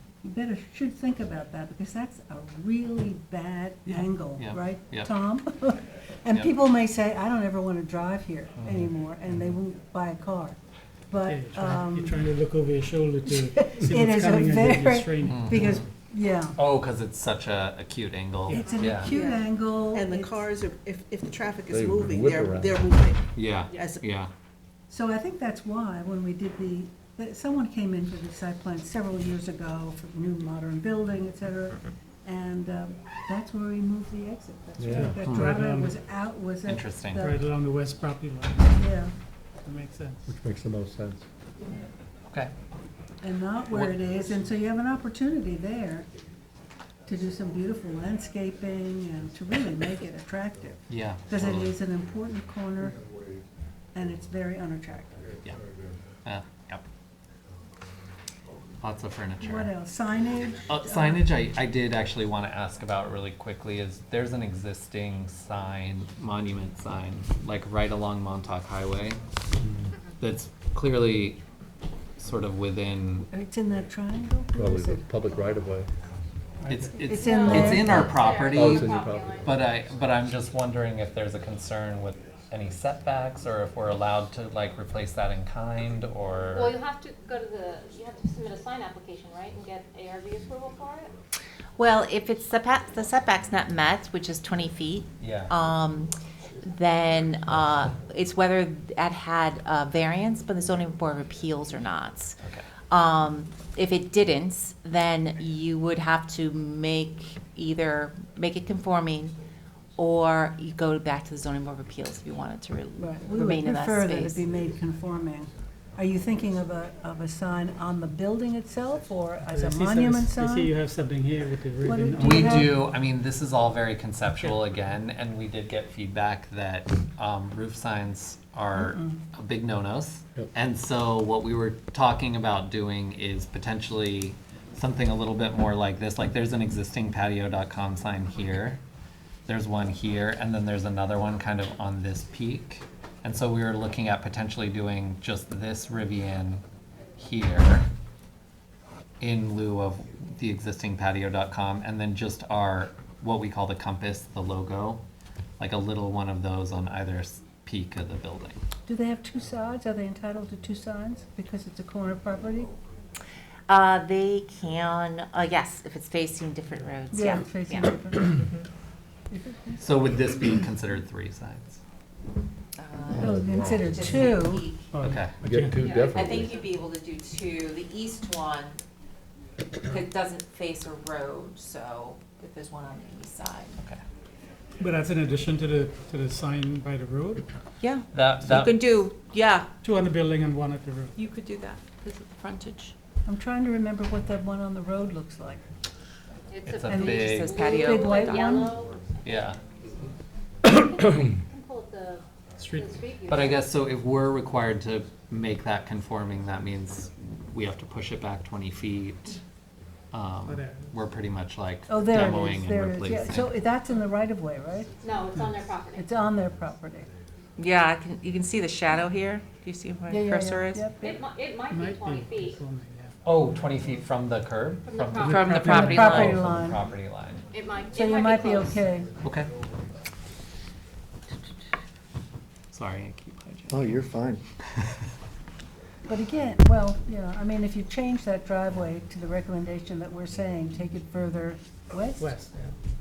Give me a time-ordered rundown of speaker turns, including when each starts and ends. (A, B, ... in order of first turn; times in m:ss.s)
0:00.2-0:10.6 A
0:04.4-0:05.2 B
0:08.6-0:08.9 B
0:11.1-0:12.2 A
0:11.2-0:15.6 C
0:13.3-0:16.6 A
0:15.2-0:15.9 B
0:16.6-0:19.1 B
0:18.5-0:18.9 C
0:18.5-0:20.4 A
0:18.6-0:19.3 D
0:19.9-0:24.1 E
0:21.7-0:22.8 F
0:23.4-0:24.3 B
0:24.9-0:37.4 A
0:34.8-0:35.2 F
0:34.9-0:36.0 C
0:36.6-0:37.3 B
0:37.2-0:38.9 C
0:38.7-0:39.2 A
0:39.6-0:40.3 C
0:40.3-0:41.2 F
0:43.2-0:46.1 A
0:43.7-0:44.0 B
0:47.1-0:53.0 A
0:50.9-0:51.8 B
0:53.9-0:55.2 A
0:56.2-0:56.8 B
0:58.8-0:59.7 B
0:59.4-1:01.3 A
1:00.7-1:09.2 B
1:10.2-1:11.4 B
1:12.2-1:13.3 B
1:13.3-1:15.1 A
1:14.5-1:15.9 F
1:16.7-1:18.8 B
1:16.7-1:17.2 C
1:17.0-1:18.1 A
1:17.1-1:18.7 G
1:17.5-1:19.4 F
1:18.2-1:19.6 D
1:19.4-1:26.8 B
1:26.5-1:31.1 D
1:31.8-1:49.4 G
1:35.2-1:35.5 B
1:42.4-1:42.7 B
1:50.0-1:54.4 G
1:53.0-2:00.8 A
1:59.5-2:02.8 C
2:01.8-2:02.8 A
2:02.2-2:18.8 B
2:08.7-2:09.2 A
2:19.5-2:26.6 B
2:27.2-2:27.9 B
2:29.2-2:35.0 B
2:35.6-2:38.6 B
2:38.9-2:42.7 A
2:43.7-2:48.7 G
2:47.1-2:48.4 A
2:49.3-2:49.8 A
2:49.8-2:51.8 B
2:52.8-2:54.9 G
2:53.2-2:54.0 F
2:53.2-2:54.7 A
2:54.9-2:55.9 C
2:55.0-2:55.4 B
2:55.4-2:56.6 F
2:55.8-2:56.7 D
2:56.1-2:58.8 G
2:59.8-3:03.8 G
3:04.8-3:07.5 C
3:07.8-3:09.7 G
3:08.1-3:08.9 B
3:09.8-3:11.2 C
3:11.2-3:12.9 G
3:13.2-3:15.6 A
3:16.5-3:19.5 D
3:16.6-3:17.5 B
3:16.9-3:18.7 A
3:16.9-3:18.7 G
3:19.2-3:19.6 B
3:20.6-3:23.7 D
3:22.6-3:23.0 C
3:23.3-3:29.4 B
3:30.1-3:33.5 B
3:30.4-3:31.0 C
3:31.9-3:35.0 A
3:35.0-3:36.1 D
3:35.3-3:35.7 C
3:36.0-3:37.1 A
3:37.6-3:40.9 G
3:40.1-3:41.2 A
3:41.0-3:42.6 D
3:41.7-3:43.2 C
3:43.2-3:47.5 B
3:44.8-3:45.4 D
3:45.2-3:46.1 C
3:45.2-3:46.4 G
3:45.4-3:46.9 A
3:47.5-3:48.9 D
3:48.0-3:49.2 A
3:49.2-3:49.5 B
3:52.7-3:53.9 B
3:53.7-3:54.3 F
3:56.1-4:02.3 A
4:02.2-4:02.8 C